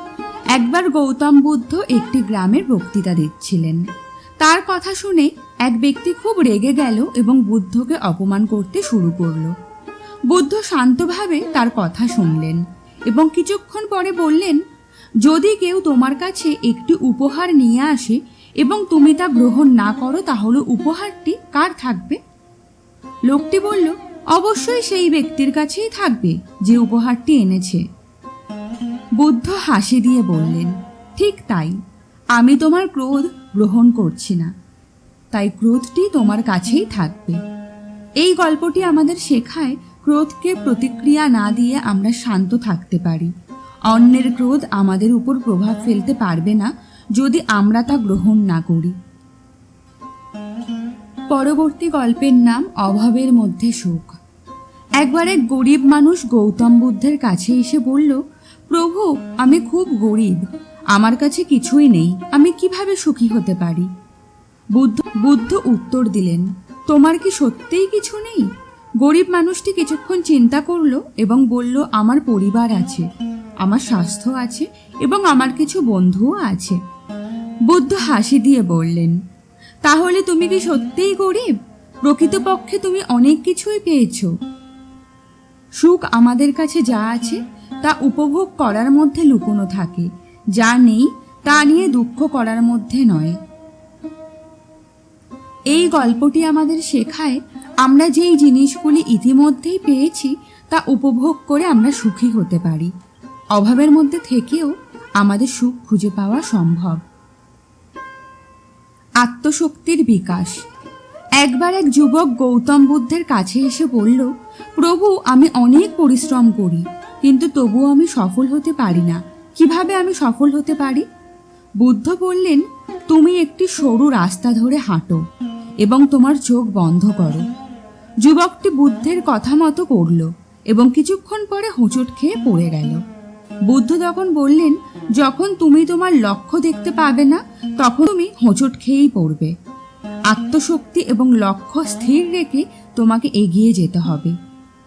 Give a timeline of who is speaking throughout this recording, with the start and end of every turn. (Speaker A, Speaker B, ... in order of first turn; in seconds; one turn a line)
Speaker A: 0.5-3.8
Speaker A: 4.4-9.5
Speaker A: 10.3-14.6
Speaker A: 15.2-22.2
Speaker A: 23.3-27.8
Speaker A: 29.2-31.8
Speaker A: 32.4-34.5
Speaker A: 35.3-37.4
Speaker A: 38.2-43.3
Speaker A: 43.9-49.0
Speaker A: 51.3-54.2
Speaker A: 55.0-63.9
Speaker A: 64.8-73.1
Speaker A: 73.6-76.8
Speaker A: 77.7-79.2
Speaker A: 79.8-81.5
Speaker A: 82.0-84.4
Speaker A: 85.8-93.4
Speaker A: 95.7-102.9
Speaker A: 103.5-107.0
Speaker A: 109.2-110.6
Speaker A: 111.4-121.0
Speaker A: 121.8-125.2
Speaker A: 125.8-127.4
Speaker A: 128.2-133.0
Speaker A: 133.7-139.6
Speaker A: 140.3-144.3